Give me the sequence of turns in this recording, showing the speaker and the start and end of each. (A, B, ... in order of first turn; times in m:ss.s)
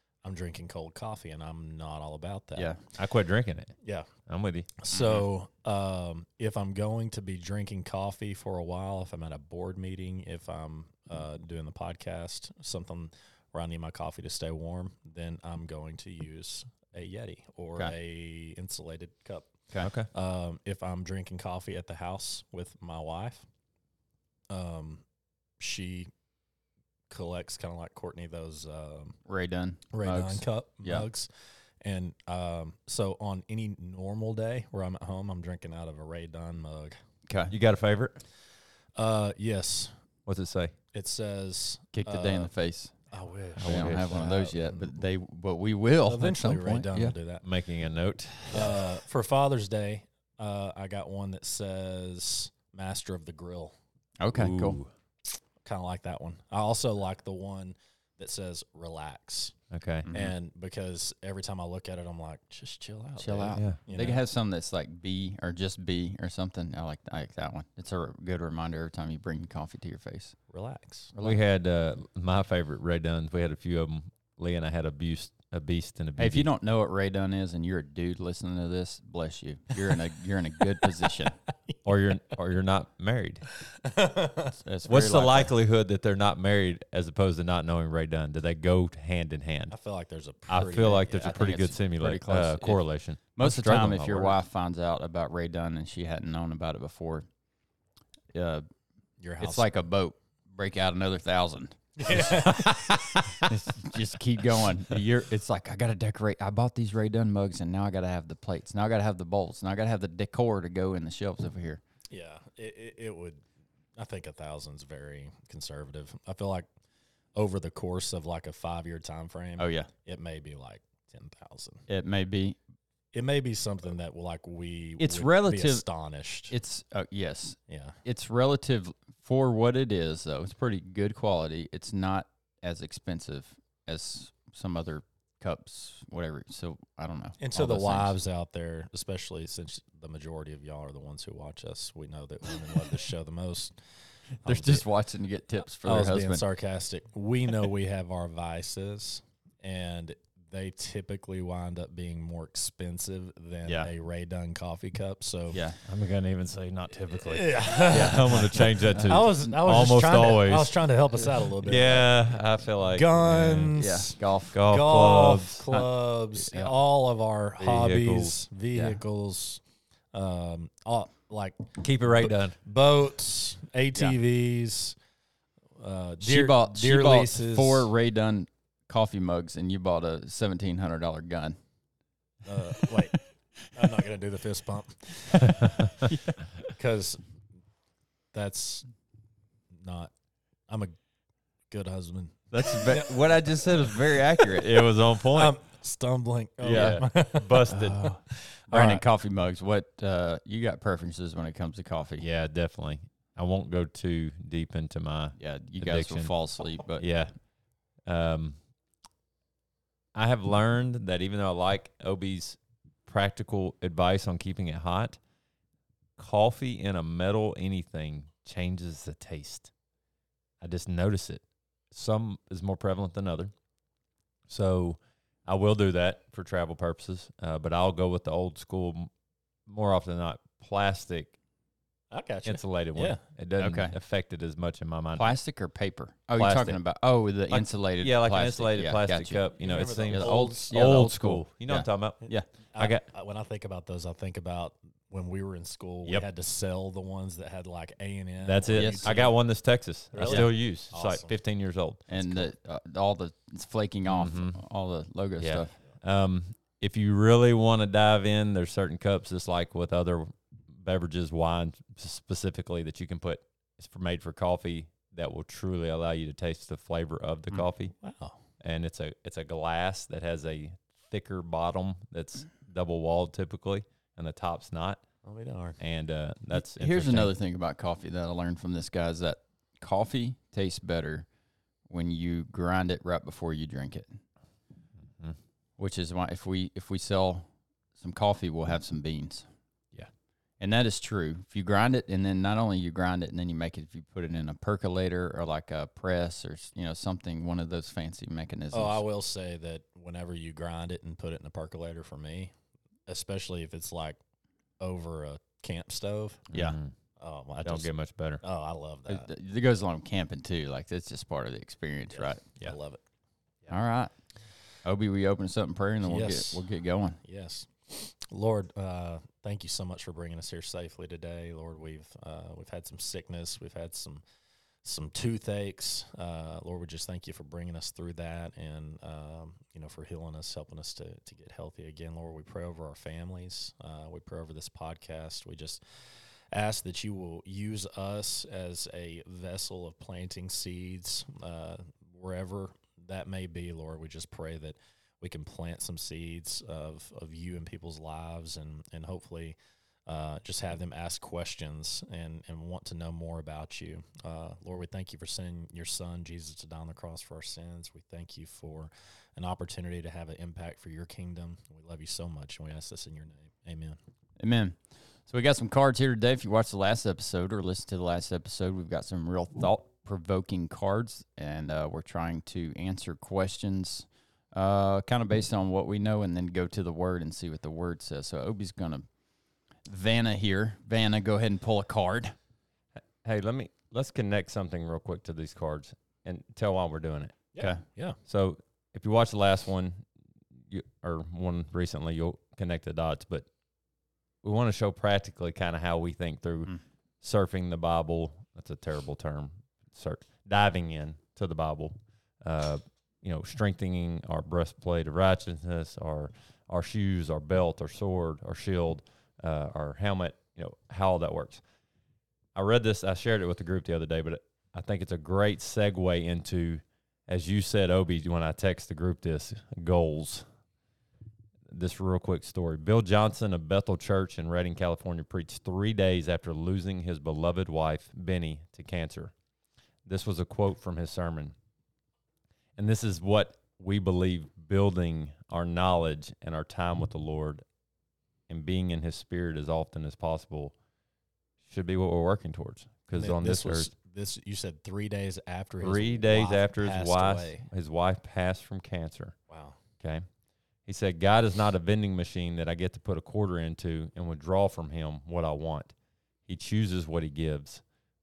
0:00.2-0:02.9 A
0:03.0-0:04.7 B
0:03.8-0:04.1 A
0:04.8-0:23.5 A
0:04.9-0:05.2 C
0:19.8-0:20.1 B
0:24.5-0:25.0 A
0:25.6-0:26.1 A
0:27.1-0:29.2 A
0:29.3-0:31.1 C
0:29.9-0:37.0 A
0:37.2-0:37.5 C
0:37.5-0:38.2 B
0:38.9-0:40.0 A
0:40.2-0:40.7 B
0:40.9-0:42.5 A
0:41.9-0:42.9 C
0:43.1-0:44.9 A
0:43.6-0:44.2 B
0:43.6-0:47.1 C
0:46.1-0:47.5 A
0:47.4-0:48.8 B
0:48.5-0:53.7 A
0:54.2-0:54.8 C
0:54.3-0:54.9 B
0:55.6-0:59.6 A
0:59.7-1:00.1 B
1:00.1-1:00.3 C
1:00.1-1:04.2 A
1:03.2-1:10.4 C
1:10.5-1:11.1 A
1:11.1-1:11.4 C
1:11.2-1:16.5 B
1:16.2-1:21.4 C
1:21.8-1:23.5 B
1:23.8-1:24.5 A
1:24.6-1:25.5 C
1:24.9-1:29.8 B
1:29.7-1:31.4 A
1:30.5-1:34.4 B
1:31.1-1:32.8 C
1:33.3-1:37.3 C
1:38.3-1:38.7 C
1:39.2-1:39.7 A
1:39.4-1:51.8 C
1:42.0-1:43.3 A
1:52.1-1:53.4 A
1:54.0-1:56.7 A
1:57.3-2:01.8 A
1:59.6-1:59.9 C
2:01.9-2:02.6 C
2:03.1-2:06.5 A
2:05.0-2:05.8 C
2:06.5-2:18.2 C
2:07.7-2:08.0 A
2:17.4-2:24.8 A
2:24.4-2:26.4 C
2:25.8-2:35.6 A
2:35.5-2:35.8 C
2:35.8-2:40.7 B
2:37.2-2:42.3 A
2:37.9-2:39.2 C
2:41.6-2:43.7 B
2:42.9-2:49.6 A
2:43.7-2:44.6 C
2:44.5-2:45.6 B
2:46.4-2:46.7 C
2:47.6-2:48.4 B
2:48.7-2:49.0 C
2:50.1-2:55.0 A
2:51.8-2:52.6 B
2:55.8-2:57.9 A
2:56.2-3:01.6 C
3:02.4-3:06.0 A
3:06.6-3:07.3 A
3:08.3-3:08.9 A
3:09.7-3:10.1 A
3:10.7-3:11.0 A
3:11.7-3:13.3 A
3:12.5-3:13.2 B
3:12.6-3:14.7 C
3:14.0-3:15.5 B
3:15.3-3:17.7 A
3:16.6-3:18.1 B
3:16.7-3:17.0 C
3:17.7-3:22.2 C
3:18.3-3:19.0 A
3:22.2-3:27.3 B
3:25.4-3:27.0 C
3:28.0-3:28.6 B
3:30.1-3:35.2 B
3:36.2-3:39.7 B
3:40.6-3:43.5 B
3:44.5-3:49.1 B
3:49.6-3:51.4 B
3:52.1-3:53.2 A
3:52.4-3:55.4 B
3:53.6-3:54.0 C
3:55.1-3:59.5 C
3:56.3-3:56.8 B
3:57.5-4:03.0 B
3:59.6-4:01.1 A
4:00.0-4:02.5 C
4:02.2-4:09.5 A
4:08.4-4:12.0 B
4:08.7-4:09.2 C
4:10.1-4:11.3 A
4:10.2-4:10.5 C
4:12.1-4:15.8 C
4:12.1-4:12.4 A
4:14.1-4:14.6 B
4:15.4-4:28.0 B
4:28.0-4:28.4 A
4:28.6-4:35.0 B
4:35.2-4:35.8 A
4:35.8-4:37.3 B
4:36.5-4:41.3 C
4:41.9-4:44.2 C
4:45.8-4:49.5 C
4:50.6-4:59.0 C
4:58.7-5:02.5 A
5:03.1-5:04.2 A
5:04.8-5:06.5 A
5:06.5-5:06.9 B
5:07.2-5:07.9 A
5:07.6-5:08.4 B
5:08.4-5:09.3 A
5:09.1-5:12.5 C
5:12.1-5:13.0 A
5:13.7-5:17.2 C
5:16.0-5:16.6 A
5:17.2-5:24.2 A
5:24.8-6:04.0 A
6:04.4-6:19.1 C
6:19.8-6:22.4 C
6:23.2-6:27.5 B
6:27.5-6:28.2 A
6:27.6-6:27.8 C
6:28.2-6:30.1 B
6:30.7-6:33.5 B
6:34.4-6:51.6 B
6:52.5-7:00.4 B
7:01.7-7:09.3 B
7:10.0-7:11.6 B
7:12.8-7:17.6 B
7:18.5-7:20.8 B
7:21.6-7:23.9 B
7:23.1-7:27.7 A
7:25.8-7:29.4 B
7:29.5-7:29.8 A
7:30.0-7:30.2 B
7:30.8-7:35.9 B
7:36.4-7:37.8 B